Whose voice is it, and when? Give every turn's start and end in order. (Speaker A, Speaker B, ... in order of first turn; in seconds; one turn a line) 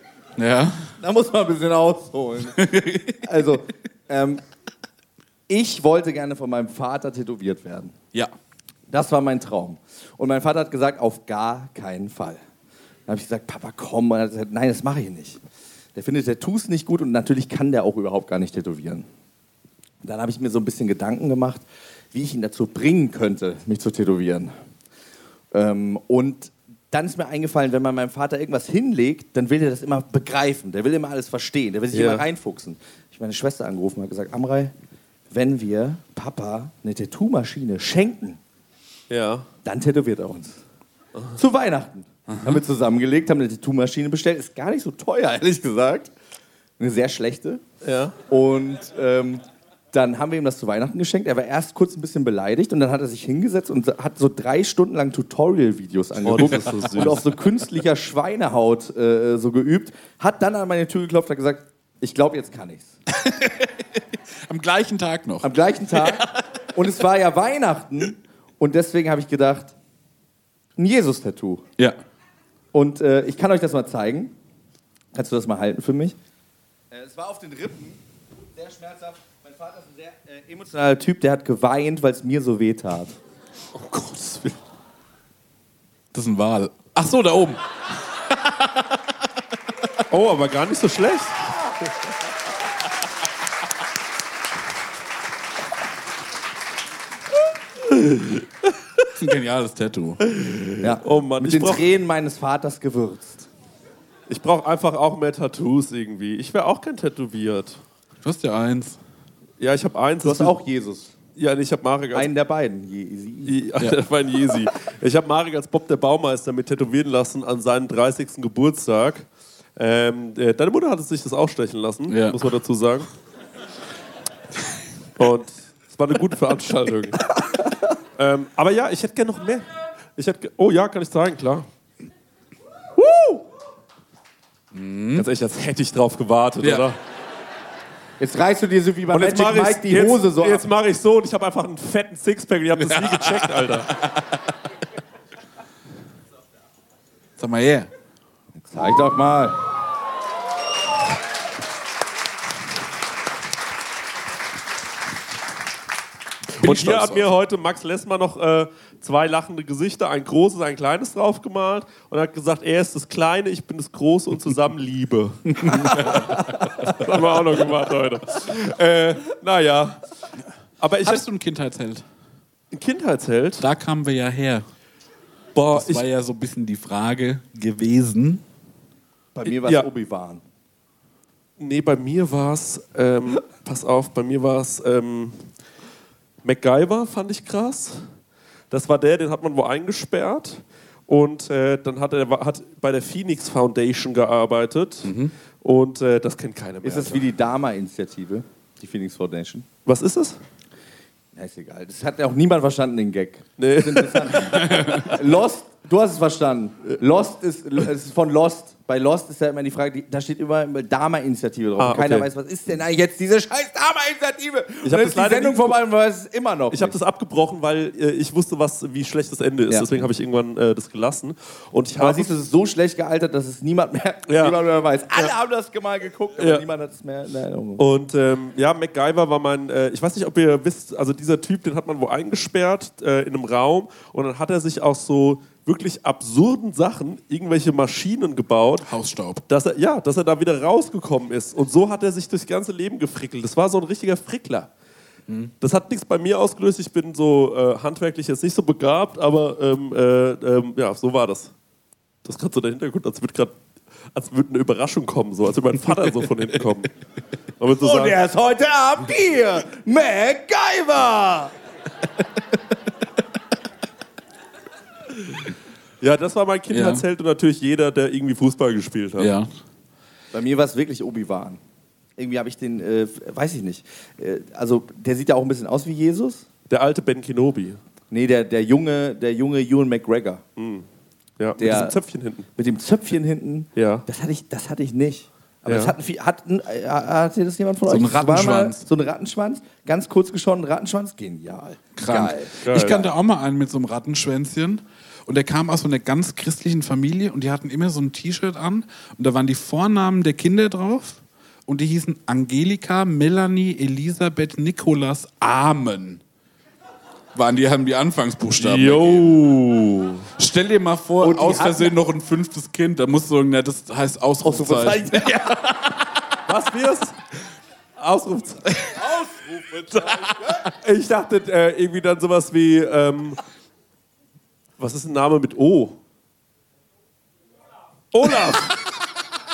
Speaker A: 0.4-0.9
Speaker B: 1.0-4.4
Speaker A: 2.6-3.2
Speaker B: 5.5-7.9
Speaker B: 8.9-12.4
Speaker B: 13.1-15.4
Speaker B: 15.9-19.1
Speaker B: 20.0-24.5
Speaker B: 25.5-34.7
Speaker C: 31.9-32.2
Speaker B: 35.3-38.4
Speaker C: 39.1-39.5
Speaker B: 39.6-40.6
Speaker B: 41.3-46.1
Speaker B: 46.8-47.6
Speaker C: 47.8-48.1
Speaker B: 48.3-62.9
Speaker C: 56.2-57.2
Speaker A: 63.1-66.3
Speaker B: 65.4-69.7
Speaker B: 70.8-71.6
Speaker B: 72.7-74.3
Speaker B: 75.1-76.2
Speaker B: 76.9-78.0
Speaker B: 78.5-83.2
Speaker C: 83.7-84.6
Speaker A: 86.1-88.9
Speaker C: 90.1-91.3
Speaker A: 99.2-100.3
Speaker B: 100.8-103.5
Speaker C: 101.0-101.8
Speaker C: 104.3-107.8
Speaker A: 108.2-109.0
Speaker C: 109.6-110.5
Speaker B: 110.2-111.1
Speaker C: 111.3-112.3
Speaker B: 112.1-113.6
Speaker C: 113.4-123.1
Speaker A: 122.1-122.4
Speaker C: 125.2-127.3
Speaker C: 128.2-131.7
Speaker B: 132.9-133.4
Speaker A: 134.7-135.2
Speaker C: 135.1-137.0
Speaker B: 138.2-140.6
Speaker C: 139.1-143.9
Speaker A: 142.8-144.3
Speaker A: 147.4-147.9
Speaker B: 148.6-149.6
Speaker A: 156.6-157.3
Speaker C: 156.6-170.0
Speaker A: 165.6-167.0
Speaker C: 170.8-171.2
Speaker A: 171.0-172.0
Speaker C: 172.7-173.6
Speaker A: 173.6-174.7
Speaker C: 175.5-176.0
Speaker A: 175.7-178.4
Speaker B: 179.3-180.4
Speaker C: 179.4-179.9
Speaker C: 181.6-185.5
Speaker C: 186.4-188.1
Speaker C: 188.7-197.2
Speaker A: 195.0-195.3
Speaker B: 196.8-199.7
Speaker C: 199.8-200.4
Speaker B: 201.3-216.9
Speaker C: 203.6-204.8
Speaker A: 204.5-205.1
Speaker C: 211.8-212.3
Speaker C: 214.8-215.8
Speaker C: 216.7-222.3
Speaker B: 219.7-220.0
Speaker B: 222.0-227.8
Speaker C: 224.3-224.6
Speaker C: 226.4-226.7
Speaker C: 227.8-238.9
Speaker A: 238.8-239.4
Speaker C: 239.5-244.7
Speaker C: 245.6-251.5
Speaker C: 252.2-253.5
Speaker C: 254.1-256.9
Speaker C: 257.6-258.2
Speaker B: 257.8-261.5
Speaker C: 266.0-269.3
Speaker A: 266.7-267.0
Speaker A: 269.2-269.5
Speaker B: 270.3-271.6
Speaker B: 272.2-276.4
Speaker C: 276.7-277.8
Speaker B: 278.1-280.4
Speaker C: 280.6-280.9
Speaker C: 281.4-282.5
Speaker B: 281.6-282.0
Speaker B: 282.6-293.0
Speaker C: 283.8-284.0
Speaker C: 285.7-285.9
Speaker A: 287.9-288.8
Speaker A: 292.0-306.2
Speaker C: 292.6-293.1
Speaker A: 307.3-309.4
Speaker C: 308.6-310.3
Speaker A: 310.4-315.5
Speaker B: 311.2-311.9
Speaker B: 314.4-315.9
Speaker C: 316.5-317.1
Speaker C: 318.0-318.8
Speaker B: 319.0-320.7
Speaker C: 320.8-323.4
Speaker C: 324.8-326.0
Speaker C: 328.1-328.8